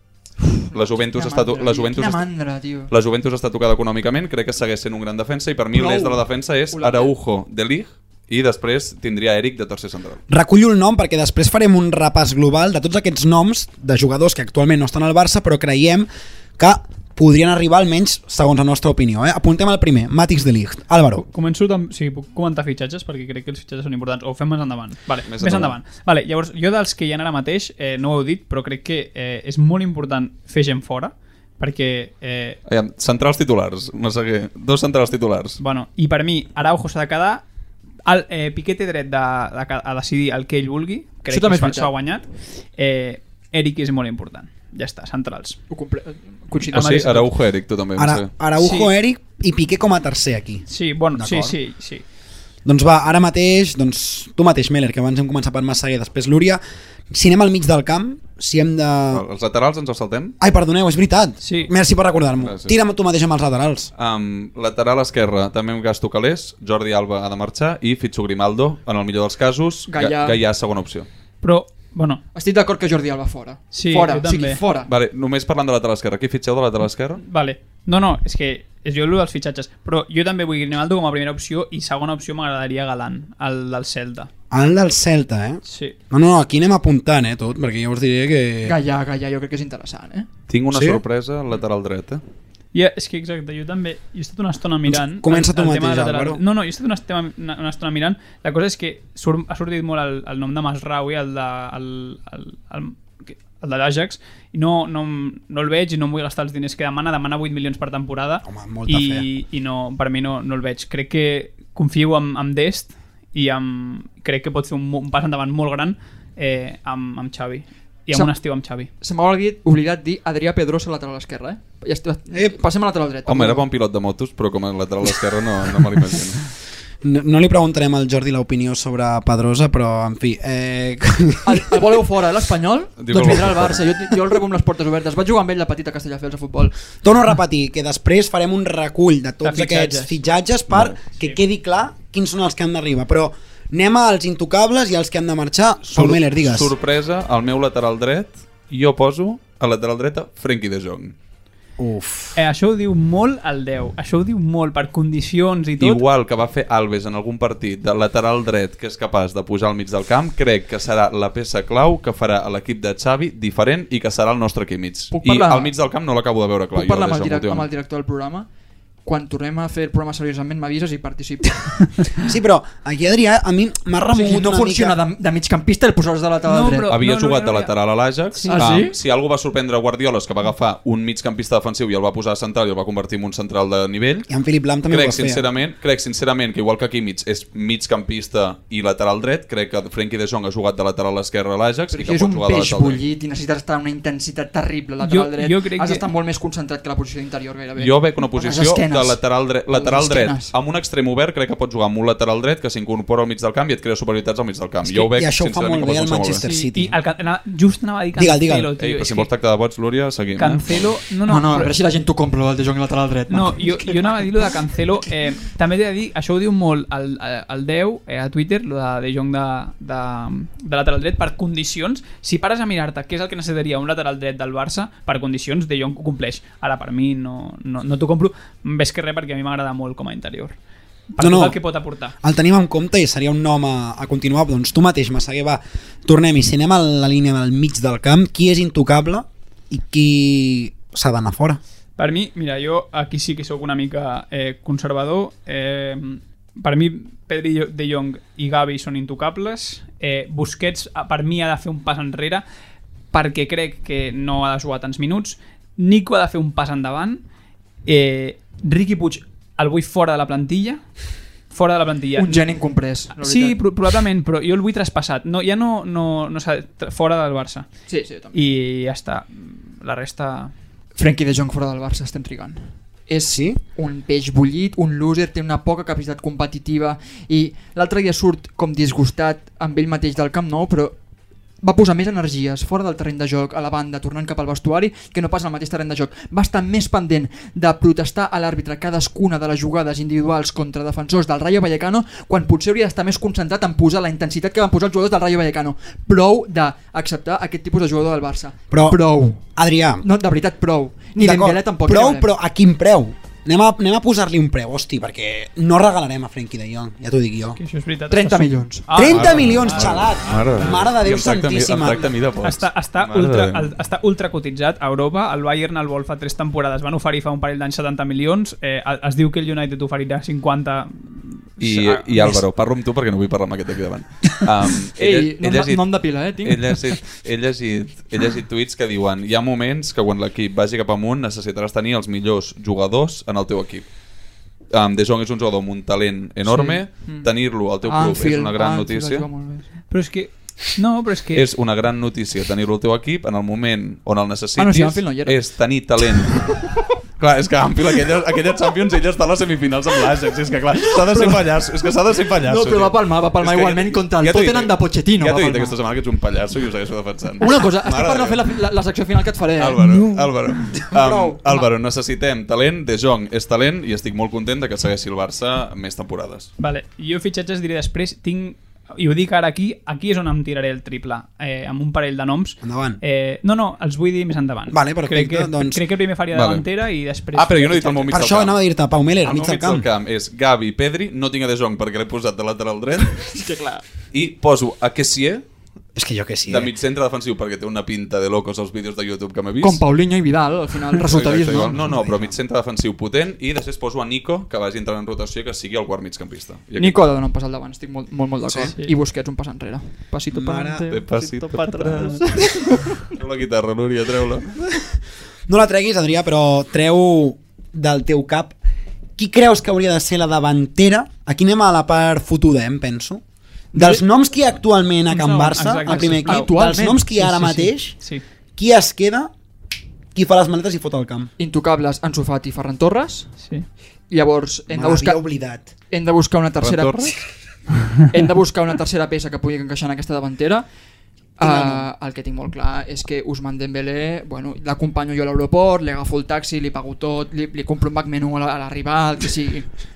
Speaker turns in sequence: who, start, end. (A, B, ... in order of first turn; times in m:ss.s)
0:00.4-0:02.9 A
0:00.7-0:02.2 B
0:02.9-0:10.2 B
0:05.7-0:07.1 A
0:10.3-0:21.2 C
0:21.3-0:32.6 D
0:25.3-0:25.7 B
0:32.7-0:35.6 B
0:35.6-0:37.4 D
0:38.0-0:42.2 D
0:41.3-0:41.9 A
0:42.8-0:45.6 D
0:45.7-0:47.1 A
0:46.7-0:47.3 D
0:46.7-0:48.3 B
0:48.0-0:51.6 C
0:48.6-0:48.9 D
0:50.7-0:52.0 D
0:52.6-0:59.2 C
0:59.1-1:00.4 B
1:00.4-1:03.9 C
1:01.4-1:01.7 D
1:02.4-1:02.7 B
1:04.0-1:11.1 B
1:09.9-1:10.4 A
1:11.4-1:12.2 D
1:12.3-1:14.9 A
1:13.7-1:14.6 D
1:14.9-1:17.2 B
1:17.2-1:24.3 D
1:24.5-1:28.8 C
1:25.7-1:26.0 D
1:28.6-1:30.3 A
1:30.5-1:32.2 B
1:30.7-1:31.0 C
1:32.7-1:58.9 D
1:34.8-1:36.4 C
1:48.4-1:49.3 C
1:59.0-2:03.6 A
2:03.2-2:06.4 B
2:07.0-2:11.9 C
2:11.4-2:16.7 A
2:13.0-2:13.8 B
2:17.0-2:26.7 C
2:19.4-2:20.2 D
2:20.7-2:21.0 B
2:25.8-2:31.1 B
2:31.8-2:32.4 C
2:32.4-2:36.0 D
2:35.8-2:47.7 B
2:45.1-2:45.7 A
2:46.7-2:48.5 A
2:49.0-2:51.7 A
2:52.2-2:55.0 C
2:54.1-2:56.9 A
2:56.5-2:57.7 D
2:56.9-3:04.3 B
2:58.4-2:58.8 D
2:58.4-2:58.9 A
3:04.3-3:05.4 C
3:04.9-3:13.0 B
3:11.9-3:19.2 A
3:15.0-3:16.0 D
3:17.8-3:26.4 B
3:19.7-3:20.5 A
3:24.8-3:26.9 C
3:26.4-3:29.3 D
3:28.2-3:28.7 C
3:28.8-3:30.8 B
3:30.4-3:31.7 D
3:31.3-3:34.2 A
3:33.3-3:50.6 D
3:51.1-3:52.1 D
3:51.2-3:51.6 C
3:52.2-4:01.6 C
4:02.0-4:12.4 D
4:13.1-4:17.2 D
4:17.8-4:20.8 D
4:21.5-4:22.4 D
4:22.2-4:23.6 A
4:23.2-4:27.7 D
4:27.9-4:28.3 A
4:28.3-4:30.5 D
4:30.9-4:41.0 A
4:33.3-4:33.6 C
4:41.6-4:59.4 A
4:58.7-5:00.0 C
5:00.0-5:02.3 A
5:01.2-5:07.6 C
5:07.6-5:09.4 D
5:08.1-5:08.8 A
5:08.9-5:12.1 C
5:09.0-5:13.7 B
5:12.4-5:22.4 D
5:21.6-5:33.8 B
5:25.0-5:26.8 A
5:34.7-5:39.3 B
5:36.4-5:37.3 A
5:37.8-5:39.7 A
5:39.9-5:41.4 D
5:41.3-5:46.6 B
5:44.6-5:45.4 A
5:47.2-5:58.4 B
5:51.1-5:51.4 A
5:52.4-5:55.7 A
5:57.4-5:59.8 A
5:59.6-6:06.5 B
6:00.7-6:01.5 C
6:06.6-6:18.1 D
6:12.6-6:13.0 C
6:14.7-6:15.8 C
6:16.3-6:16.6 B
6:17.3-6:18.6 B
6:18.1-6:19.9 C
6:19.2-6:23.3 B
6:23.3-6:23.8 A
6:24.1-6:25.4 B
6:25.9-6:26.7 C
6:26.5-6:29.8 B
6:29.6-6:31.8 A
6:31.0-6:37.0 B
6:31.7-6:32.4 C
6:36.8-6:42.8 A
6:40.3-6:40.9 C
6:40.9-6:42.2 B
6:41.6-6:42.2 D
6:43.0-6:44.5 B
6:45.5-6:48.5 C
6:49.2-6:53.2 C
6:53.7-6:54.0 A
6:53.7-6:58.0 C
6:55.1-6:56.5 D
6:55.9-6:57.7 A
6:58.6-6:59.3 C
7:00.1-7:01.3 C
7:01.4-7:03.3 A
7:04.1-7:05.2 A
7:04.7-7:05.7 C
7:05.9-7:07.2 A
7:06.6-7:07.2 B
7:08.1-7:10.6 A
7:11.4-7:11.9 C
7:11.4-7:19.7 A